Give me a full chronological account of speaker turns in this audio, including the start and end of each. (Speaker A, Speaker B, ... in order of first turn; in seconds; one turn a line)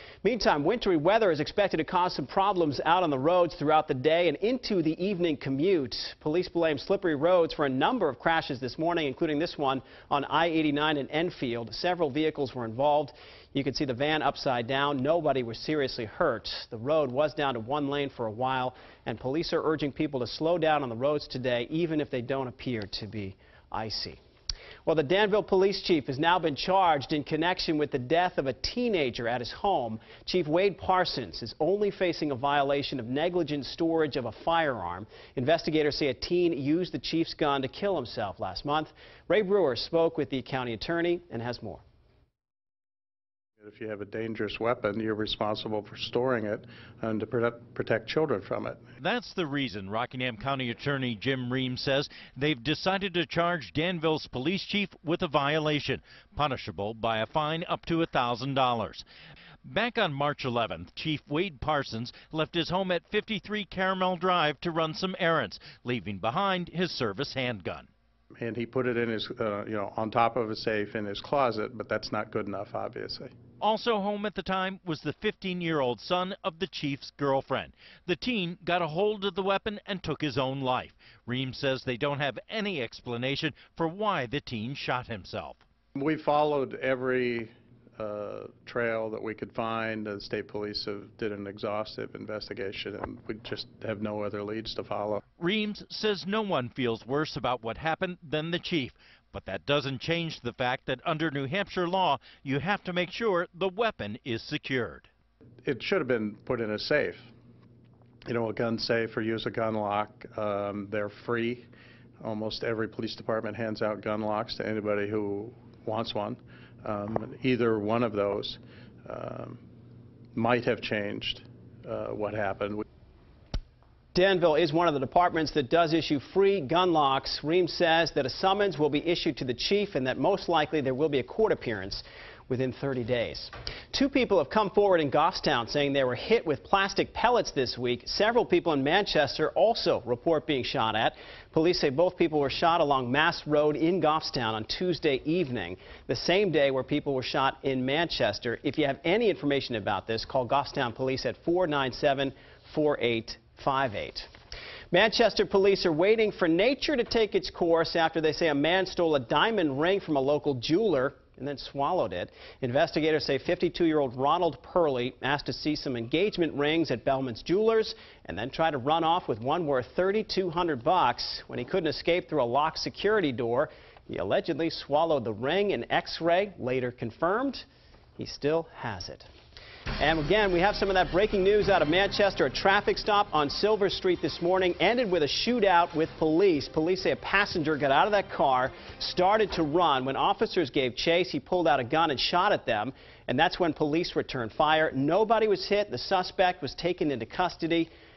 Speaker A: 0.2-24.2
Speaker A: 24.8-41.8
Speaker B: 43.6-48.8
Speaker C: 49.0-59.0
Speaker C: 59.6-67.9
Speaker B: 68.4-73.3
Speaker C: 73.6-85.6
Speaker B: 85.9-95.2
Speaker C: 95.4-105.1
Speaker B: 105.6-107.3
Speaker B: 108.3-111.7
Speaker B: 112.2-119.6
Speaker B: 120.3-122.8
Speaker A: 124.1-154.3
Speaker A: 154.9-177.7
Speaker A: 178.2-179.3
Speaker A: 180.0-197.9